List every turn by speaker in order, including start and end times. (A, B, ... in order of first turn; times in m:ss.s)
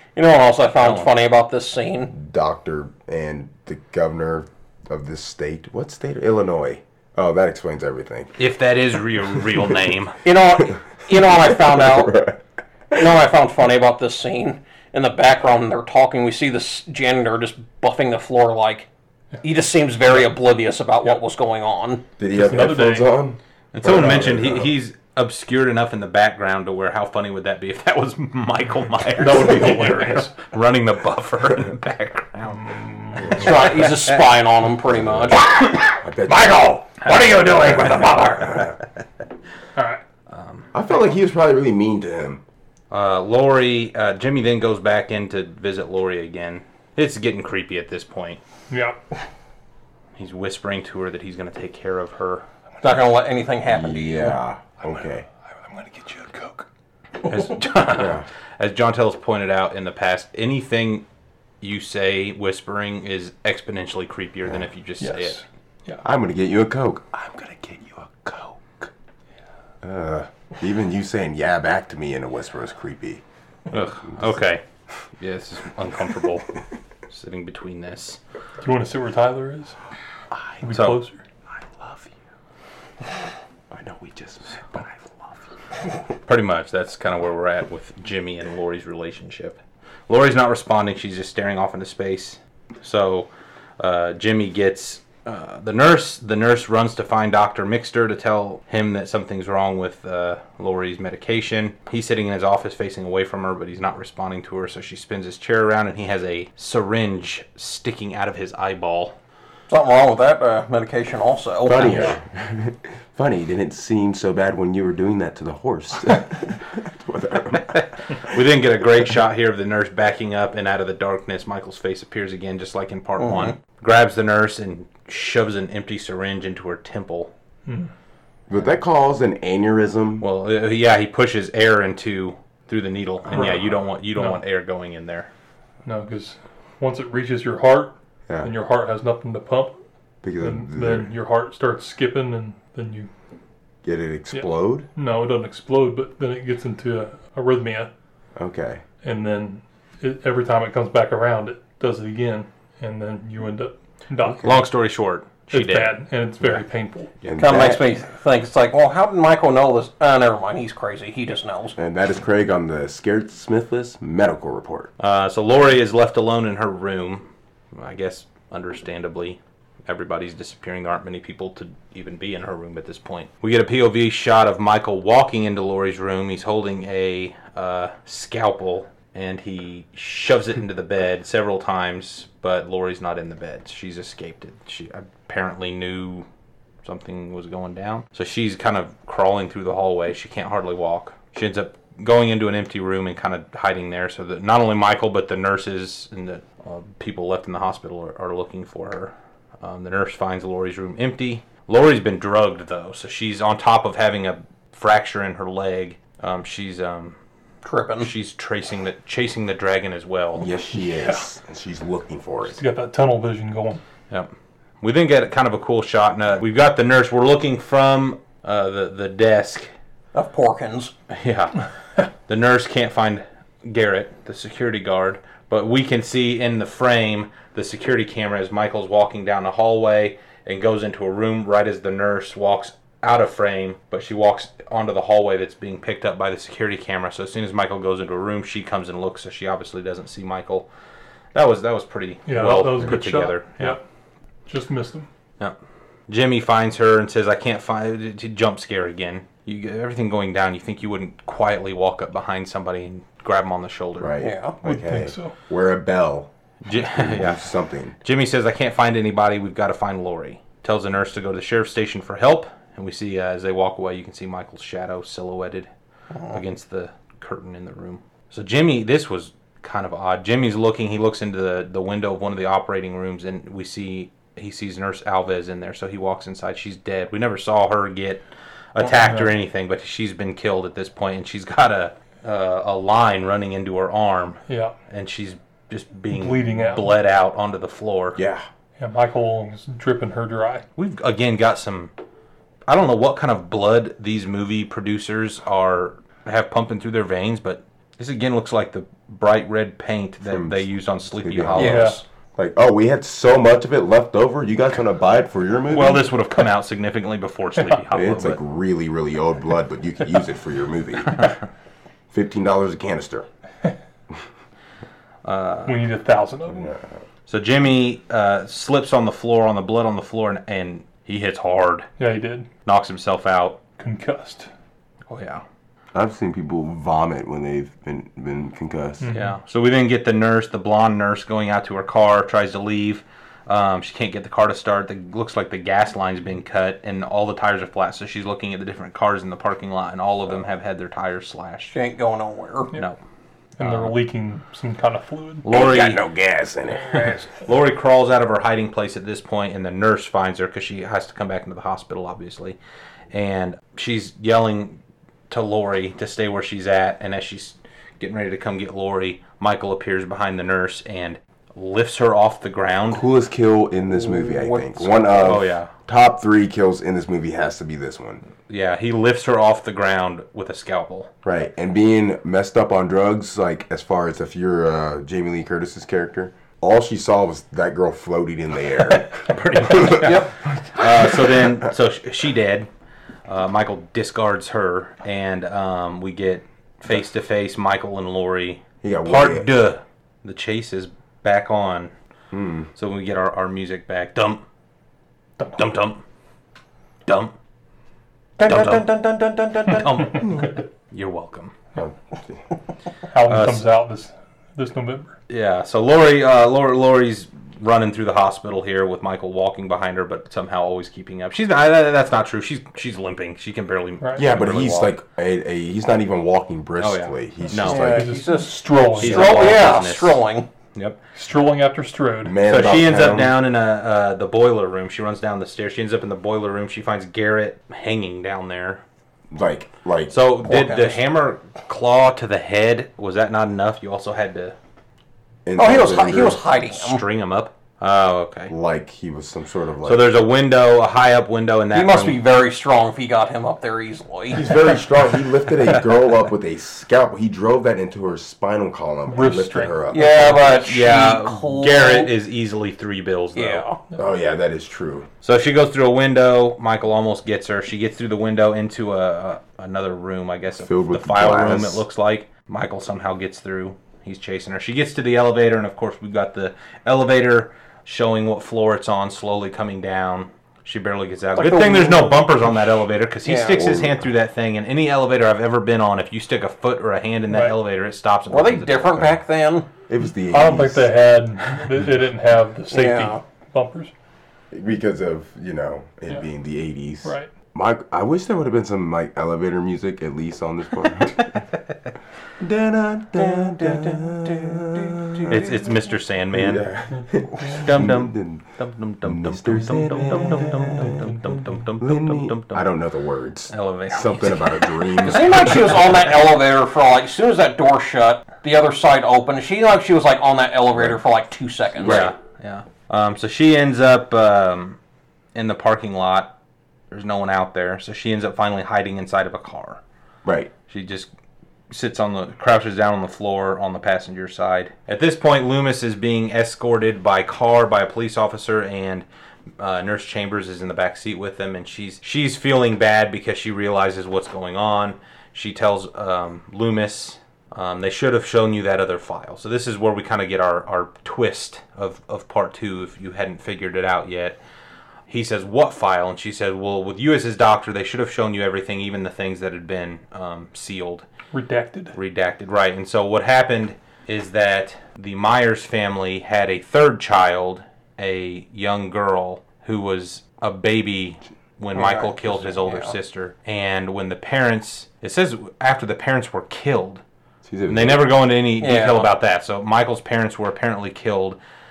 0:00.2-0:02.1 A
0:00.8-0:01.1 B
0:02.1-0:08.4 C
0:08.4-0:10.2 B
0:10.2-0:12.2 A
0:11.2-0:13.1 C
0:12.9-0:18.9 A
0:19.4-0:22.1 A
0:22.2-0:24.7 C
0:22.3-0:23.1 D
0:23.7-0:33.5 B
0:29.2-0:30.4 D
0:32.5-0:33.5 D
0:33.2-0:38.7 A
0:35.0-0:35.4 C
0:36.0-0:36.8 C
0:39.8-0:40.0 D
0:40.3-0:40.7 B
0:40.7-0:42.4 C
0:42.9-0:48.4 B
0:48.7-0:49.0 D
0:50.2-0:52.4 B
0:52.8-0:54.4 A
0:53.6-0:55.2 C
0:55.5-0:56.7 D
0:57.2-0:57.6 D
0:57.2-1:01.0 B
0:57.9-0:58.3 C
1:01.6-1:05.4 B
1:05.0-1:06.0 D
1:06.0-1:08.9 C
1:09.8-1:13.2 C
1:13.7-1:14.6 B
1:13.7-1:14.4 C
1:15.2-1:16.5 B
1:17.1-1:18.2 B
1:18.6-1:19.8 D
1:20.3-1:20.6 C
1:20.6-1:21.2 D
1:20.7-1:21.0 B
1:21.6-1:22.1 C
1:23.7-1:25.1 C
1:26.2-1:49.1 B
1:49.7-1:52.0 A
1:51.6-1:57.8 C
1:57.6-2:07.3 B
2:03.2-2:03.5 A
2:08.5-2:10.2 C
2:10.2-2:15.3 B
2:13.3-2:14.4 D
2:15.8-2:19.8 D
2:20.2-2:21.1 C
2:20.4-2:23.1 D
2:23.8-2:24.9 C
2:24.3-2:27.9 D
2:28.4-2:28.8 C
2:29.0-2:34.6 D
2:34.4-2:36.6 B
2:35.5-2:37.1 D
2:37.2-2:37.9 C
2:37.4-2:41.8 A
2:41.8-2:44.9 C
2:45.0-3:06.3 B
3:06.8-3:27.2 B
3:27.6-3:28.1 A
3:28.0-3:30.5 B
3:30.4-3:32.6 C
3:30.9-3:31.2 D
3:32.5-3:33.8 D
3:34.1-3:39.7 B
3:40.1-3:40.9 A
3:41.1-3:41.7 B
3:42.2-4:00.7 B
4:01.3-4:03.8 B
4:02.2-4:03.8 D
4:04.4-4:05.1 D
4:06.1-4:14.1 B
4:14.0-4:17.9 C
4:14.2-4:14.6 A
4:14.6-4:15.3 D
4:16.6-4:17.5 B
4:18.0-4:25.7 B
4:26.3-4:38.2 B
4:38.7-4:48.2 B
4:39.0-4:39.3 D
4:44.5-4:44.7 D
4:46.1-4:46.9 D
4:48.2-4:48.4 C
4:48.8-4:50.6 D
4:50.8-4:51.9 B
4:52.7-5:02.0 B
5:00.2-5:06.1 C
5:01.5-5:02.0 A
5:01.6-5:02.0 D
5:05.7-5:08.4 B
5:07.9-5:11.4 C
5:12.1-5:13.3 C
5:15.2-5:15.9 B
5:15.6-5:16.7 D
5:16.5-5:16.9 C
5:17.3-5:21.9 B
5:22.0-5:22.5 D
5:22.6-5:23.6 B
5:23.8-5:24.5 D
5:25.1-5:25.4 B
5:25.9-5:29.1 C
5:29.0-5:29.3 D
5:29.1-5:41.8 B
5:41.7-5:42.7 A
5:43.6-5:45.4 D
5:43.6-5:44.0 B
5:45.4-5:46.0 B
5:45.5-5:47.2 C
5:46.9-5:52.6 B
5:53.1-6:03.0 B
6:02.9-6:08.2 C
6:03.9-6:05.4 A
6:05.2-6:05.7 B
6:08.5-6:11.1 B
6:11.2-6:20.2 C
6:18.8-6:22.7 B
6:20.0-6:20.3 A
6:20.7-6:21.7 C
6:23.3-6:31.9 B
6:28.8-6:29.5 C
6:32.3-6:32.7 C
6:32.7-6:34.4 B
6:35.5-6:36.0 B
6:37.0-6:37.3 B
6:38.4-6:40.2 A
6:38.4-6:38.9 B
6:39.6-6:41.5 B
6:41.8-6:42.4 C
6:43.1-6:45.2 D
6:43.2-6:43.7 B
6:45.3-6:55.0 B
6:54.0-6:54.2 D
6:54.2-6:58.2 C
6:56.8-6:57.9 B
6:57.5-7:00.5 A
6:57.7-6:59.6 D
6:59.0-7:00.2 B
7:00.7-7:01.0 B
7:01.1-7:02.4 D
7:02.2-7:03.4 C
7:02.4-7:08.8 B
7:09.3-7:10.2 C
7:10.1-7:14.5 B
7:10.4-7:11.0 A
7:15.4-7:16.4 C
7:15.6-7:17.0 A
7:16.6-7:18.5 B
7:18.5-7:20.2 C
7:19.8-7:22.2 B
7:21.7-7:24.5 A
7:24.3-7:30.4 C
7:29.1-7:30.4 D
7:29.9-7:32.1 A
7:30.5-7:33.6 B
7:33.3-7:33.8 A
7:34.0-7:35.1 C
7:35.2-7:59.1 B
7:40.6-7:41.8 C
7:51.4-7:52.3 A
7:53.2-7:53.7 A
7:53.6-7:54.0 C
7:57.3-7:57.6 D
7:58.3-7:59.7 A
7:59.9-8:00.9 C
8:00.2-8:03.9 D
8:02.7-8:03.2 A
8:04.5-8:11.4 C
8:07.0-8:07.3 D
8:12.4-8:15.5 C
8:13.2-8:15.7 A
8:15.3-8:16.7 B
8:16.3-8:18.4 C
8:17.5-8:22.7 B
8:19.0-8:25.7 C
8:20.8-8:21.1 D
8:23.5-8:24.5 B
8:25.0-8:32.1 A
8:31.8-8:32.1 C
8:31.8-8:34.8 B
8:35.3-8:36.3 B
8:36.9-8:39.8 B
8:40.2-8:40.5 C
8:40.7-8:41.1 B
8:41.7-8:49.0 B
8:49.6-9:04.4 B
9:05.1-9:11.1 B
9:11.3-9:11.9 D
9:11.9-9:27.0 B
9:21.7-9:22.9 A
9:27.4-9:28.1 C
9:27.7-9:31.4 B
9:28.6-9:29.1 A